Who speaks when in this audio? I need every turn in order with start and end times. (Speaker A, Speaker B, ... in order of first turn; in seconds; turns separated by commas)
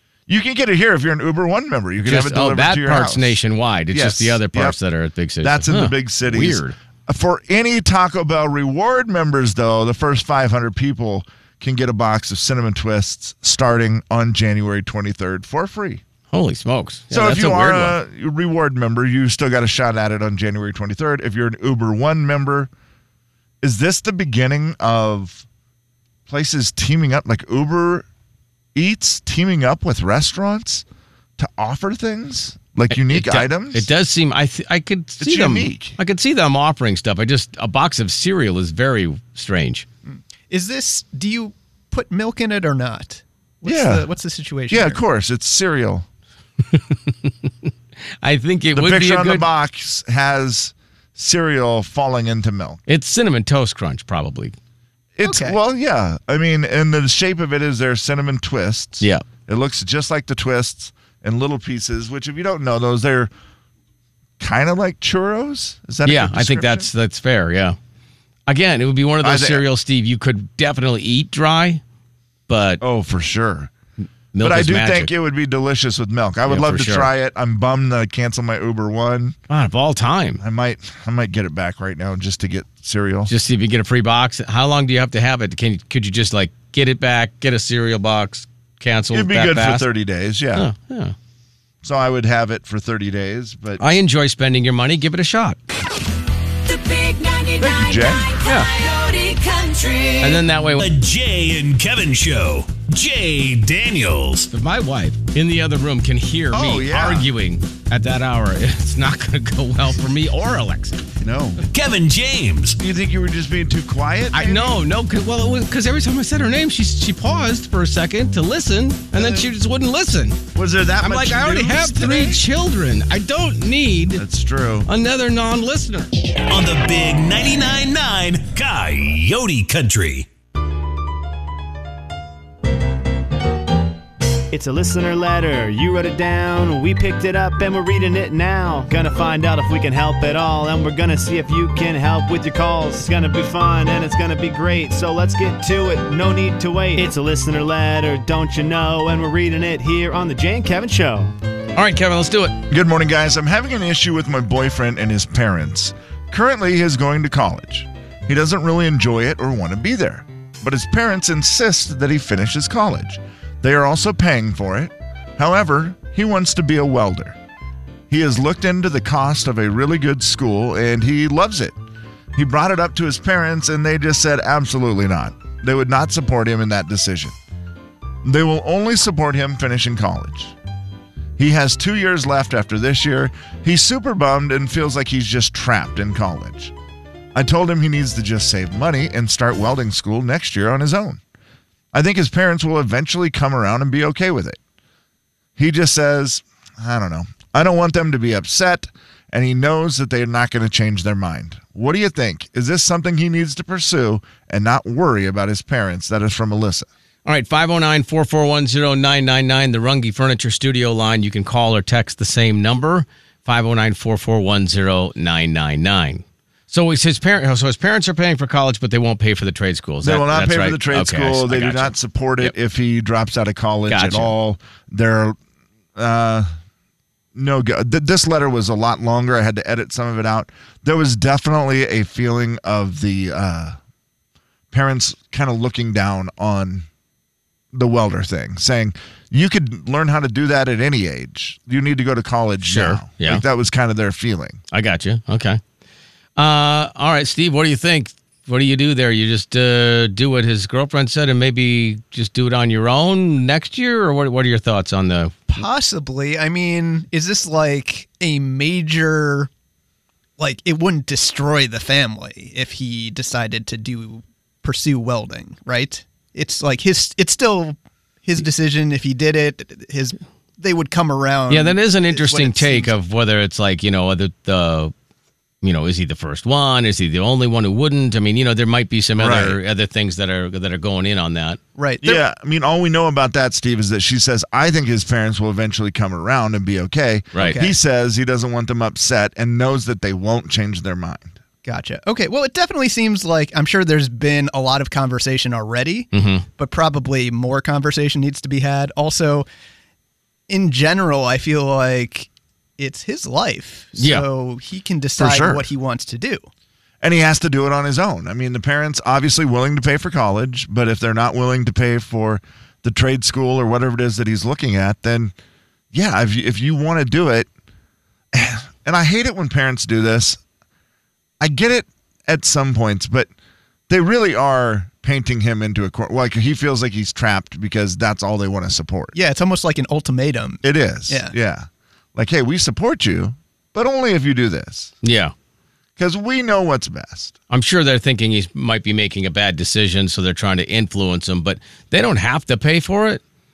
Speaker A: 0.3-4.8, Speaker B: 2.0-6.7, Speaker A: 5.4-16.0, Speaker B: 16.3-18.0, Speaker A: 17.1-22.7, Speaker A: 23.6-25.4, Speaker A: 26.3-28.1, Speaker A: 28.7-30.8, Speaker A: 31.4-33.9, Speaker B: 32.9-39.9, Speaker A: 35.2-36.0, Speaker C: 40.1-45.0, Speaker A: 43.6-44.1, Speaker A: 44.7-46.0, Speaker B: 46.7-47.7, Speaker B: 48.2-49.5, Speaker A: 48.7-52.8, Speaker B: 52.9-54.5, Speaker A: 55.1-63.3, Speaker C: 55.2-55.6, Speaker A: 64.4-66.9, Speaker B: 66.0-67.8, Speaker B: 68.5-71.8, Speaker A: 69.2-69.6, Speaker B: 72.5-72.8, Speaker A: 72.8-73.7, Speaker B: 74.3-75.1, Speaker A: 74.4-79.3, Speaker B: 76.5-77.1, Speaker B: 79.5-80.4, Speaker A: 80.4-83.3, Speaker B: 83.3-89.9, Speaker A: 89.1-90.7, Speaker B: 90.5-91.1, Speaker A: 91.8-93.8, Speaker B: 93.8-95.6, Speaker D: 96.6-100.4, Speaker A: 97.6-98.3, Speaker B: 98.4-98.7, Speaker B: 100.2-100.8, Speaker E: 100.8-104.5, Speaker B: 104.5-111.1, Speaker A: 106.5-107.3, Speaker A: 111.2-111.6, Speaker E: 111.7-112.8, Speaker A: 112.8-114.8, Speaker B: 114.3-120.4, Speaker A: 119.1-119.5, Speaker A: 120.5-122.4, Speaker B: 121.0-124.2, Speaker A: 124.1-124.9, Speaker B: 124.8-126.1, Speaker E: 126.5-130.3, Speaker F: 134.5-151.3, Speaker B: 151.8-152.6, Speaker A: 152.7-167.4, Speaker A: 168.1-171.8, Speaker A: 172.3-177.3, Speaker A: 178.2-180.5, Speaker A: 181.4-186.7, Speaker A: 187.3-191.2, Speaker A: 191.9-194.6, Speaker A: 195.6-206.9, Speaker B: 207.2-222.5, Speaker A: 220.0-225.4, Speaker B: 223.9-224.3, Speaker A: 225.9-226.5, Speaker A: 227.3-233.8, Speaker A: 234.7-236.9, Speaker A: 237.7-244.6, Speaker B: 242.6-243.4, Speaker B: 244.7-245.6, Speaker B: 246.4-255.6, Speaker C: 255.5-259.5, Speaker C: 260.4-272.9, Speaker B: 271.5-274.9, Speaker B: 275.6-281.6, Speaker A: 279.2-279.6, Speaker C: 281.8-282.2, Speaker A: 282.0-291.4, Speaker B: 287.3-287.7, Speaker C: 287.4-287.7, Speaker C: 291.6-299.4, Speaker B: 296.1-296.4, Speaker C: 300.5-306.5, Speaker B: 304.0-304.2, Speaker A: 305.2-305.7, Speaker A: 307.0-315.3, Speaker A: 315.9-317.5, Speaker A: 318.3-320.4, Speaker A: 321.4-323.3, Speaker A: 323.9-329.1, Speaker C: 329.1-331.3, Speaker A: 330.6-334.9, Speaker B: 335.0-335.3, Speaker A: 336.0-337.3, Speaker B: 337.5-343.2